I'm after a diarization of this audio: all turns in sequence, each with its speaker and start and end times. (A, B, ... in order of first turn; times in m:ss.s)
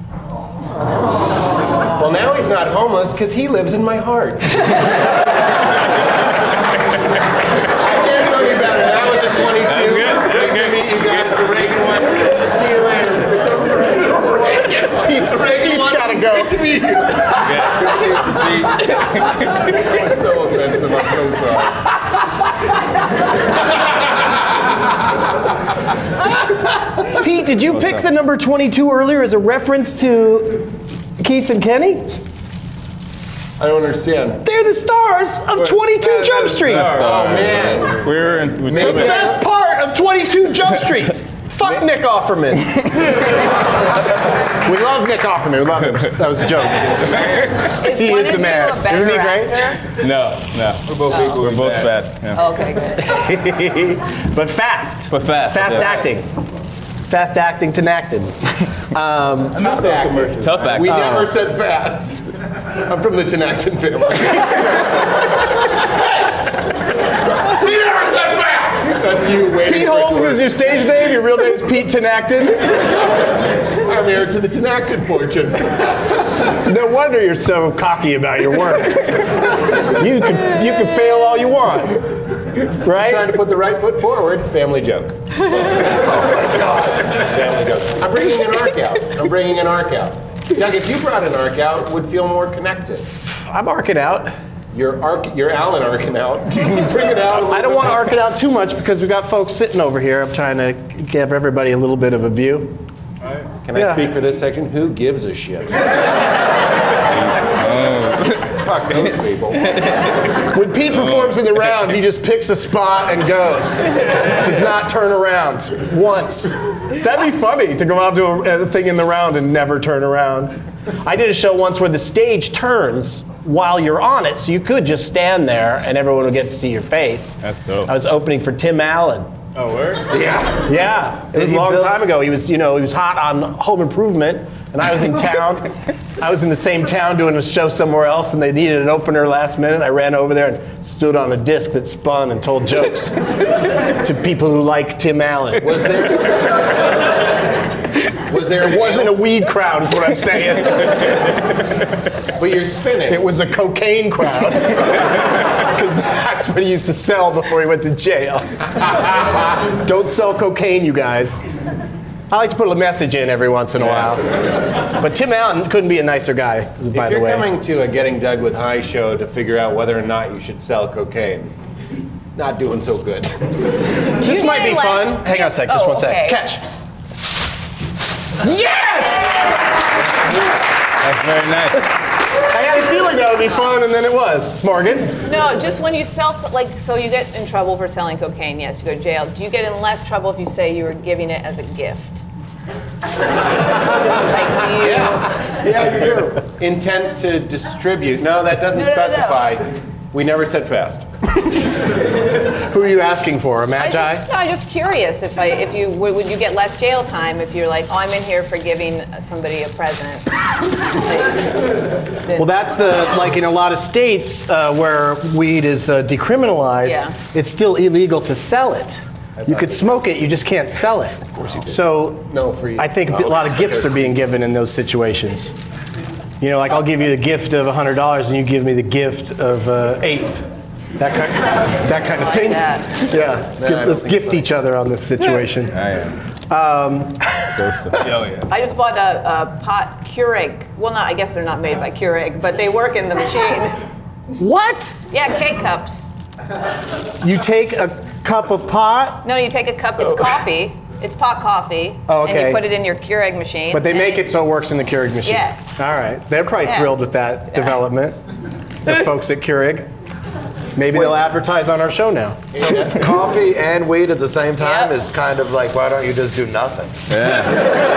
0:02.0-0:04.8 A
0:07.6-0:17.9 A
0:09.4-0:11.4 B
0:14.2-0:16.8 C
0:17.3-0:19.7 B
0:19.6-0:21.9 A
0:27.0-0:32.1 C
0:33.6-0:34.4 A
0:34.4-0:37.1 C
0:35.6-0:39.4 B
0:36.7-0:39.4 A
0:38.7-0:43.2 C
0:44.5-0:46.9 C
0:47.8-0:49.8 D
0:47.8-0:49.8 C
0:50.0-0:52.4 B
0:51.1-0:51.6 D
0:52.3-0:53.1 D
0:53.0-0:56.3 C
0:55.1-0:56.1 B
0:57.1-0:59.6 C
0:59.5-1:05.7 A
0:59.6-1:01.1 B
1:00.8-1:01.4 C
1:07.3-1:10.6 A
1:09.6-1:12.8 C
1:13.7-1:16.0 A
1:16.6-1:22.1 C
1:22.8-1:23.4 C
1:22.8-1:33.1 A
1:33.5-1:34.3 C
1:34.7-1:38.1 A
1:37.5-1:42.8 C
1:43.6-1:45.9 A
1:43.7-1:44.1 C
1:47.1-1:48.5 B
1:48.5-1:49.9 A
1:50.4-2:09.3 C
1:51.1-1:51.4 B
2:07.4-2:07.9 B
2:09.5-2:10.1 B
2:10.1-2:10.7 E
2:10.6-2:23.2 C
2:11.3-2:12.0 E
2:23.9-2:25.9 C
2:25.6-2:26.9 A
2:28.3-2:29.2 A
2:28.6-2:31.2 C
2:32.4-2:33.2 A
2:33.1-2:39.0 C
2:39.6-2:41.5 C
2:42.3-2:47.5 C
2:46.9-2:51.5 A
2:52.3-2:53.4 A
2:54.2-2:56.6 C
2:54.2-2:56.4 D
2:58.4-2:59.6 C
3:01.0-3:01.9 B
3:02.4-3:05.2 C
3:05.2-3:12.2 D
3:14.2-3:15.2 D
3:14.8-3:21.1 A
3:18.7-3:19.5 D
3:22.5-3:24.3 C
3:23.8-3:32.9 D
3:32.3-3:45.6 C
3:36.8-3:37.2 D
3:39.4-3:40.0 A
3:41.4-3:44.2 A
3:46.4-3:50.4 C
3:51.0-3:55.8 C
3:52.2-3:52.9 D
3:53.6-3:54.5 A
3:55.7-3:56.1 B
3:56.5-3:57.9 C
3:57.6-3:58.5 B
3:58.5-4:03.8 D
4:04.4-4:04.9 C
4:05.1-4:06.1 D
4:07.2-4:09.2 C
4:09.2-4:14.3 D
4:12.1-4:12.7 C
4:13.7-4:18.2 C
4:15.2-4:15.7 D
4:16.6-4:16.9 D
4:18.8-4:19.9 C
4:20.8-4:22.4 C
4:22.5-4:23.2 A
4:22.9-4:26.9 E
4:24.6-4:24.9 D
4:27.1-4:27.6 B